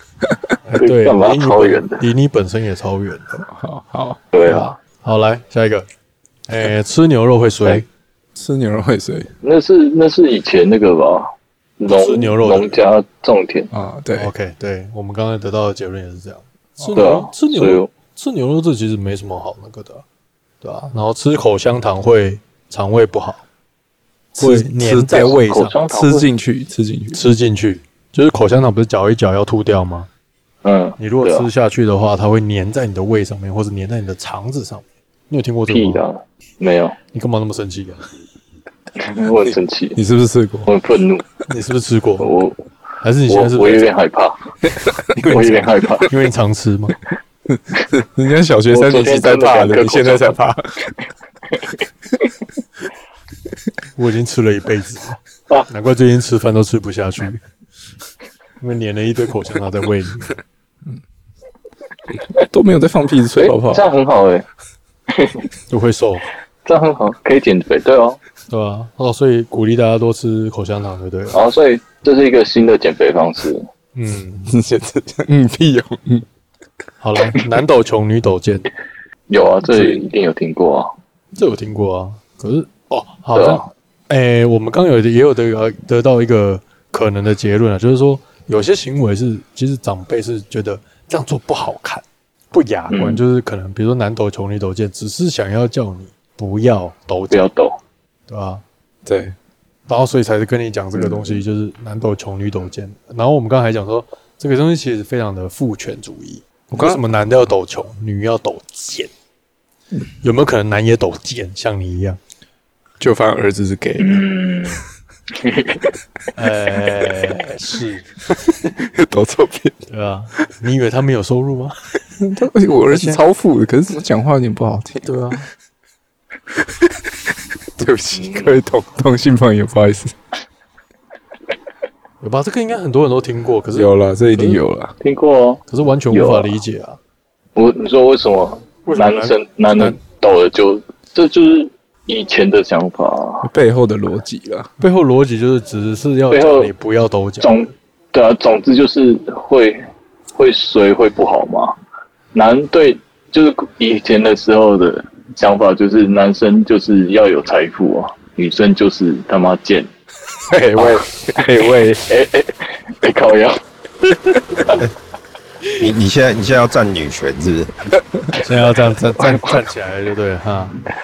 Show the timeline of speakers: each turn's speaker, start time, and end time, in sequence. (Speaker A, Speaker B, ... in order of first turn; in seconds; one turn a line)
Speaker A: 0.2-0.5
Speaker B: 0.7-3.5
Speaker C: 0.8-2.0
Speaker A: 3.5-4.2
Speaker C: 4.3-4.8
Speaker B: 4.4-5.9
Speaker B: 6.5-7.8
Speaker A: 8.3-9.3
Speaker C: 9.4-13.7
Speaker B: 11.9-12.8
Speaker A: 13.7-14.3
Speaker B: 14.2-20.0
Speaker A: 16.8-17.2
Speaker C: 16.9-17.9
Speaker B: 20.6-23.4
Speaker A: 24.4-27.2
Speaker B: 24.4-25.8
Speaker C: 25.1-26.3
Speaker B: 27.1-30.1
Speaker C: 30.6-31.5
Speaker B: 31.0-36.0
Speaker C: 35.7-37.0
Speaker B: 37.1-38.0
Speaker C: 39.0-40.0
Speaker A: 39.5-40.7
Speaker C: 40.7-41.3
Speaker B: 41.5-42.3
Speaker C: 42.2-42.6
Speaker B: 43.0-43.9
Speaker C: 43.3-44.5
Speaker A: 44.7-45.3
Speaker C: 45.2-46.1
Speaker B: 45.2-47.0
Speaker A: 47.5-50.9
Speaker C: 48.7-50.4
Speaker B: 54.0-57.4
Speaker B: 58.6-60.3
Speaker A: 62.4-63.9
Speaker C: 63.4-64.5
Speaker C: 65.1-65.5
Speaker B: 65.7-66.3
Speaker C: 66.7-68.2
Speaker B: 68.5-71.4
Speaker C: 71.3-73.7
Speaker B: 74.0-74.5
Speaker A: 74.5-76.2
Speaker B: 77.0-78.7
Speaker C: 79.3-80.9
Speaker A: 79.7-80.0
Speaker B: 81.3-97.5
Speaker C: 83.3-83.6
Speaker C: 92.9-93.2
Speaker C: 97.3-97.8
Speaker B: 98.3-98.6
Speaker A: 99.0-99.4
Speaker B: 99.9-109.1
Speaker A: 106.7-107.0
Speaker B: 110.2-112.2
Speaker A: 113.0-114.2
Speaker C: 114.0-114.8
Speaker C: 115.4-115.9
Speaker B: 116.3-118.1
Speaker A: 118.7-119.8
Speaker B: 119.9-121.8
Speaker A: 122.2-125.0
Speaker B: 122.9-123.2
Speaker B: 125.0-125.5
Speaker A: 127.8-130.2
Speaker C: 128.1-128.5
Speaker B: 132.2-134.6
Speaker A: 133.8-134.9
Speaker C: 135.0-136.5
Speaker B: 135.7-137.0
Speaker C: 137.6-143.5
Speaker B: 138.9-139.4
Speaker A: 143.4-144.7
Speaker B: 144.8-147.7
Speaker C: 146.3-146.7
Speaker C: 147.4-151.8
Speaker C: 152.3-159.9
Speaker A: 160.5-162.1
Speaker C: 160.8-161.5
Speaker C: 162.1-163.6
Speaker D: 165.8-167.9
Speaker B: 168.4-170.8